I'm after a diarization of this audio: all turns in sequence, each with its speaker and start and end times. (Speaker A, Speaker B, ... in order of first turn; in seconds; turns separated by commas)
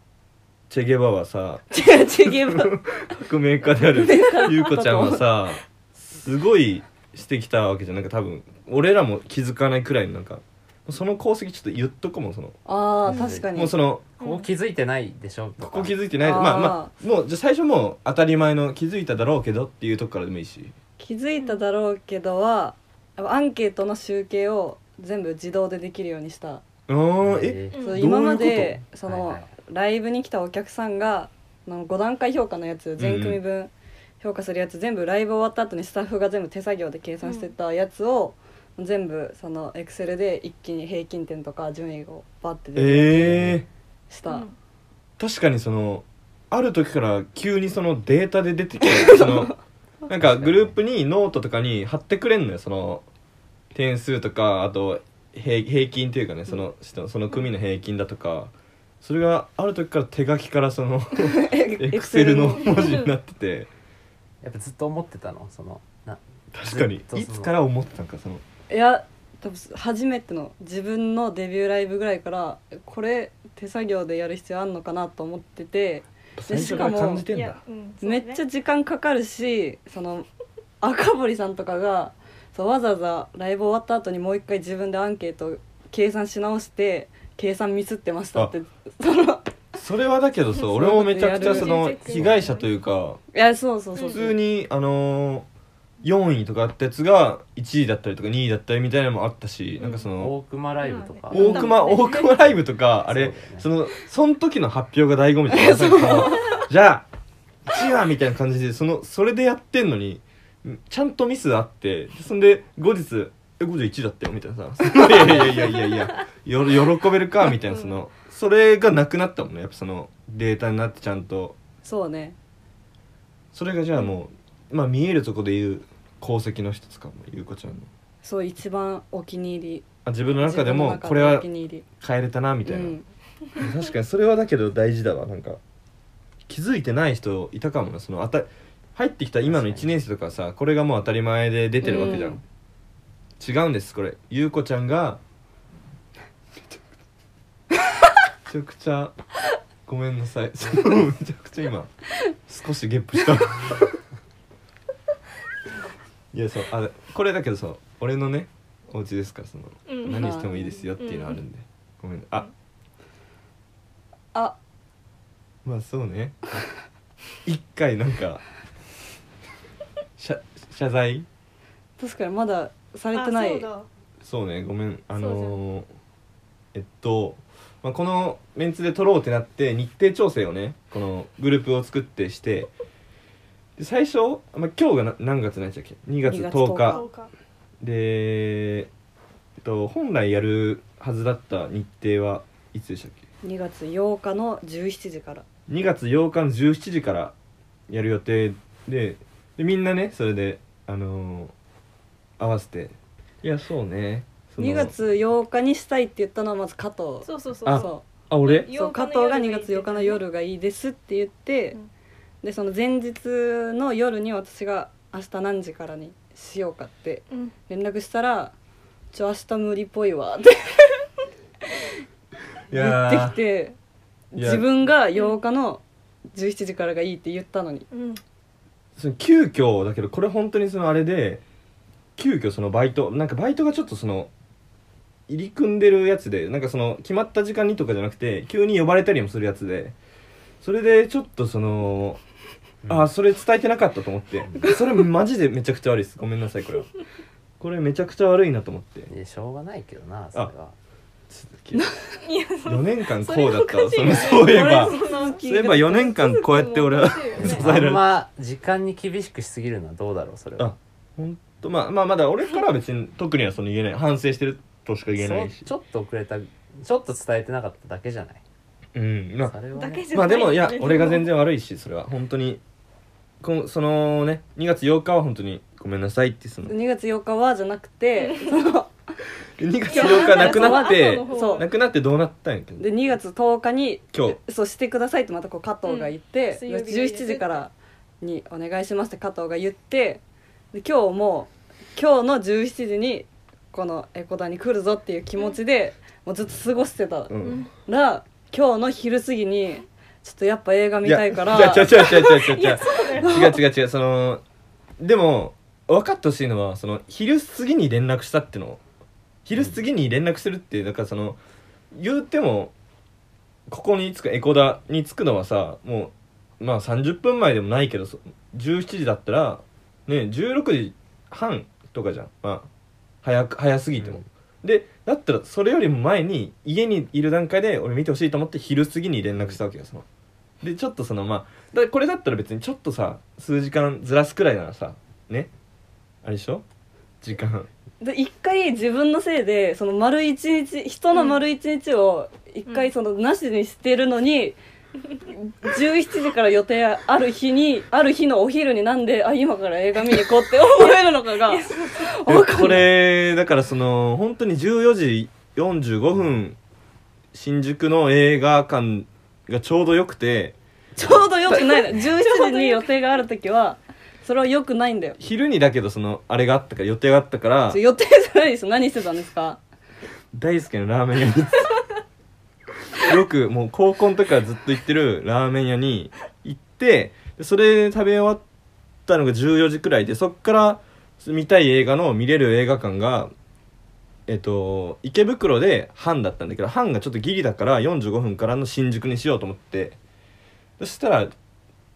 Speaker A: 0.7-1.6, Speaker B: 1.7-2.7, Speaker A: 2.5-12.6, Speaker B: 3.8-5.2, Speaker B: 12.6-13.7, Speaker C: 13.1-13.6, Speaker A: 13.5-14.1, Speaker C: 14.2-15.9, Speaker D: 14.2-14.5, Speaker A: 15.6-20.7, Speaker B: 16.2-16.9, Speaker B: 21.0-26.6, Speaker A: 26.9-28.8, Speaker C: 27.2-27.7, Speaker D: 27.7-28.0, Speaker B: 27.8-43.4, Speaker C: 29.0-29.5, Speaker A: 33.0-33.4, Speaker D: 37.2-37.5, Speaker A: 42.7-43.7, Speaker C: 43.1-43.6, Speaker B: 44.1-44.5, Speaker D: 44.3-44.5, Speaker A: 45.2-49.5, Speaker B: 48.9-49.3, Speaker A: 50.1-53.0, Speaker C: 50.1-50.8, Speaker A: 53.7-63.7, Speaker B: 61.1-62.8, Speaker C: 64.4-67.6, Speaker A: 66.5-68.4, Speaker B: 68.7-77.3, Speaker A: 76.4-77.6, Speaker D: 77.3-78.4, Speaker B: 78.0-80.3, Speaker B: 80.8-89.5, Speaker A: 89.8-93.2, Speaker B: 90.6-91.8, Speaker D: 91.2-92.7, Speaker B: 93.3-94.3, Speaker D: 94.0-94.2, Speaker A: 94.0-95.5, Speaker A: 96.0-100.3, Speaker D: 99.8-100.1, Speaker C: 100.2-101.7, Speaker D: 100.8-102.4, Speaker A: 101.3-107.1, Speaker B: 101.4-101.6, Speaker C: 102.9-103.7, Speaker B: 105.5-106.5, Speaker A: 107.7-121.6, Speaker C: 115.2-115.5, Speaker B: 121.8-122.4, Speaker A: 123.5-127.9, Speaker B: 128.2-131.8, Speaker A: 130.0-131.5, Speaker A: 132.0-133.0, Speaker B: 132.7-133.1, Speaker A: 133.6-135.6, Speaker A: 136.5-142.4, Speaker C: 139.5-139.9, Speaker B: 141.8-142.4, Speaker A: 143.4-145.2, Speaker A: 148.5-149.2, Speaker A: 149.8-151.9, Speaker A: 152.5-154.0, Speaker A: 156.3-162.5, Speaker D: 159.9-160.2, Speaker B: 160.2-160.8, Speaker D: 161.0-161.4, Speaker A: 165.6-166.4, Speaker A: 167.4-168.4, Speaker A: 170.2-171.2, Speaker B: 172.0-173.7, Speaker D: 173.1-173.9, Speaker A: 174.2-175.9, Speaker D: 175.1-175.6, Speaker A: 176.7-182.7, Speaker A: 183.8-187.0, Speaker B: 186.2-187.1, Speaker D: 186.8-187.3, Speaker A: 187.8-188.9, Speaker A: 189.6-193.2, Speaker B: 193.4-195.4, Speaker A: 195.7-197.3, Speaker A: 197.9-201.5, Speaker A: 202.4-205.0, Speaker B: 204.6-208.0, Speaker D: 207.2-210.2, Speaker A: 207.6-208.7, Speaker B: 208.7-211.8, Speaker B: 212.4-218.5, Speaker B: 219.1-220.9, Speaker A: 222.7-223.4, Speaker B: 222.7-223.8, Speaker B: 224.3-227.8, Speaker A: 224.3-224.7, Speaker D: 225.1-225.4, Speaker D: 227.9-228.2, Speaker A: 229.0-231.4, Speaker A: 232.2-234.3, Speaker A: 235.3-239.9, Speaker A: 240.6-242.2, Speaker C: 242.8-243.1, Speaker A: 242.9-246.9, Speaker C: 244.5-244.7, Speaker A: 247.6-249.1, Speaker C: 249.1-250.8, Speaker A: 251.3-251.8, Speaker D: 252.2-255.3, Speaker A: 252.7-258.0, Speaker B: 254.1-256.2, Speaker D: 256.2-257.7, Speaker C: 257.4-260.7, Speaker A: 260.6-265.7, Speaker C: 265.1-268.4, Speaker A: 268.9-269.6, Speaker C: 269.4-270.1, Speaker D: 269.7-271.2, Speaker A: 270.1-272.6, Speaker A: 273.4-276.8, Speaker B: 276.6-278.9, Speaker A: 279.6-282.9, Speaker D: 279.9-281.7, Speaker B: 279.9-281.6, Speaker B: 282.8-302.2, Speaker A: 284.1-284.4, Speaker D: 285.8-287.6, Speaker A: 297.3-297.7, Speaker D: 297.4-297.7, Speaker A: 301.0-304.4, Speaker D: 302.2-303.3, Speaker B: 303.2-303.6, Speaker A: 305.0-308.8, Speaker A: 309.4-311.4, Speaker A: 311.9-312.7, Speaker A: 313.7-322.7, Speaker A: 323.2-330.0, Speaker C: 324.0-324.2, Speaker A: 330.6-335.5, Speaker A: 336.2-336.6, Speaker A: 337.2-337.7, Speaker B: 338.0-344.6, Speaker B: 345.2-352.8, Speaker D: 350.7-352.1, Speaker A: 352.2-356.6, Speaker A: 357.3-360.6, Speaker B: 361.0-365.2, Speaker A: 361.5-361.8, Speaker D: 362.4-362.7, Speaker A: 365.2-367.8, Speaker B: 367.7-369.6, Speaker A: 370.3-371.8, Speaker A: 372.9-378.4, Speaker A: 379.1-383.3, Speaker A: 384.3-390.0, Speaker A: 390.8-391.3